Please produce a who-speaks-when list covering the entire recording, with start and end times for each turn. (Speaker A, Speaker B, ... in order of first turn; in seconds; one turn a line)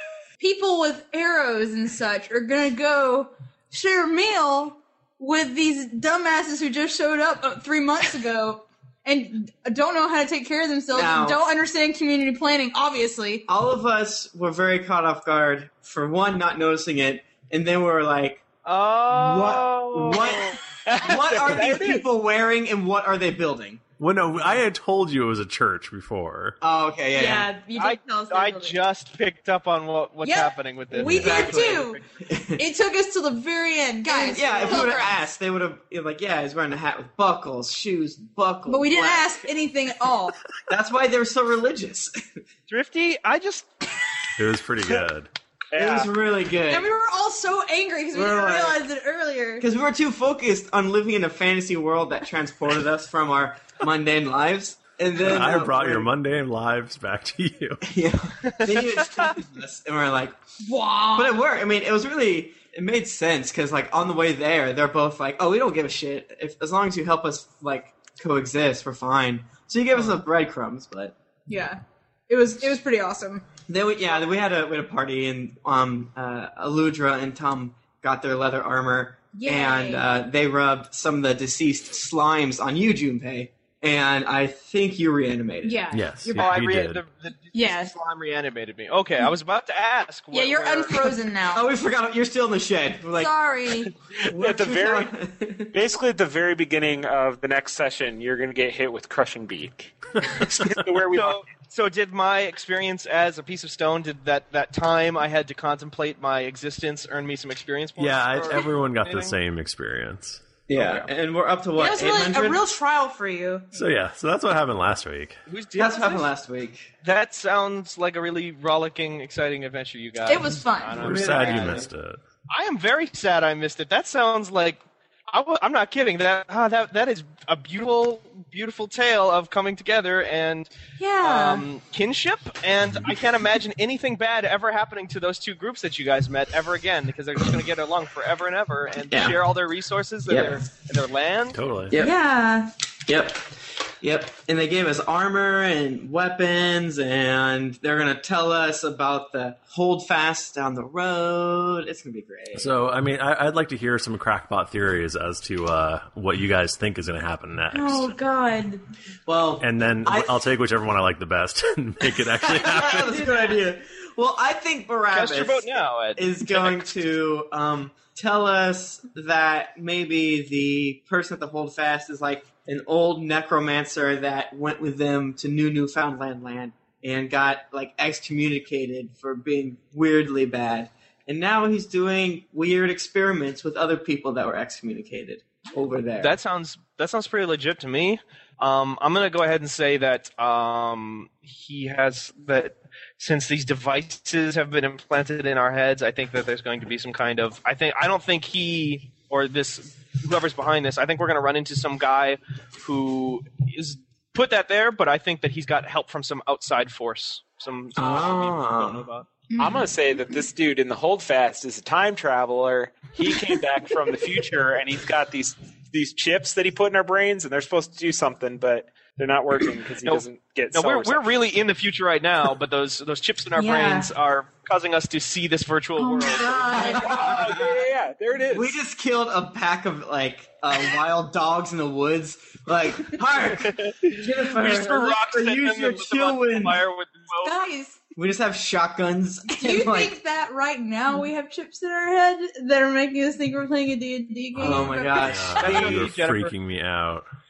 Speaker A: 0.4-13.4
Speaker B: 10.9-11.4
Speaker B: 13.5-18.4
Speaker C: 18.6-20.6
Speaker B: 19.1-23.8
Speaker D: 20.9-21.9
Speaker E: 24.0-26.6
Speaker B: 26.6-27.5
Speaker A: 27.1-28.8
Speaker C: 27.8-32.0
Speaker A: 30.2-32.0
Speaker B: 30.9-32.6
Speaker A: 32.6-35.1
Speaker B: 34.1-39.4
Speaker A: 38.7-40.4
Speaker B: 40.7-42.2
Speaker C: 42.7-43.7
Speaker E: 44.4-45.3
Speaker D: 45.7-46.1
Speaker B: 45.7-46.9
Speaker A: 46.7-49.6
Speaker B: 48.1-48.8
Speaker B: 49.6-56.1
Speaker E: 55.2-57.8
Speaker B: 57.8-60.4
Speaker C: 58.5-59.3
Speaker A: 60.6-61.4
Speaker B: 61.1-71.1
Speaker A: 71.5-73.4
Speaker B: 73.7-85.8
Speaker A: 79.3-80.1
Speaker A: 85.6-86.5
Speaker E: 85.9-87.0
Speaker C: 86.4-91.1
Speaker A: 87.5-87.9
Speaker A: 90.3-91.7
Speaker B: 91.5-93.3
Speaker A: 93.2-93.9
Speaker D: 94.2-95.1
Speaker B: 94.2-95.7
Speaker D: 95.7-101.4
Speaker C: 101.1-109.3
Speaker E: 108.0-110.5
Speaker B: 110.7-112.7
Speaker A: 111.8-113.8
Speaker E: 113.7-115.4
Speaker C: 115.5-116.3
Speaker B: 115.8-116.9
Speaker C: 117.0-121.9
Speaker A: 120.2-121.0
Speaker E: 121.0-122.2
Speaker B: 121.0-121.9
Speaker C: 122.5-130.7
Speaker A: 131.0-131.6
Speaker C: 131.2-141.6
Speaker B: 139.1-139.4
Speaker B: 140.3-140.6
Speaker E: 141.5-141.9
Speaker A: 141.9-142.7
Speaker B: 143.1-143.5
Speaker B: 144.0-152.7
Speaker E: 152.5-158.2
Speaker A: 157.7-158.8
Speaker B: 159.3-160.4
Speaker E: 159.6-163.2
Speaker B: 162.4-186.3
Speaker C: 165.1-166.9
Speaker C: 186.2-209.3
Speaker B: 208.0-209.1
Speaker A: 209.5-209.9
Speaker D: 209.6-221.3
Speaker C: 220.0-227.2
Speaker A: 223.6-224.1
Speaker A: 226.0-227.2
Speaker B: 227.0-227.6
Speaker D: 227.0-228.8
Speaker B: 228.5-236.8
Speaker C: 233.8-237.6
Speaker A: 237.4-238.0
Speaker B: 238.1-240.1
Speaker A: 239.5-245.5
Speaker B: 244.5-246.1
Speaker E: 245.2-247.2
Speaker C: 245.6-246.6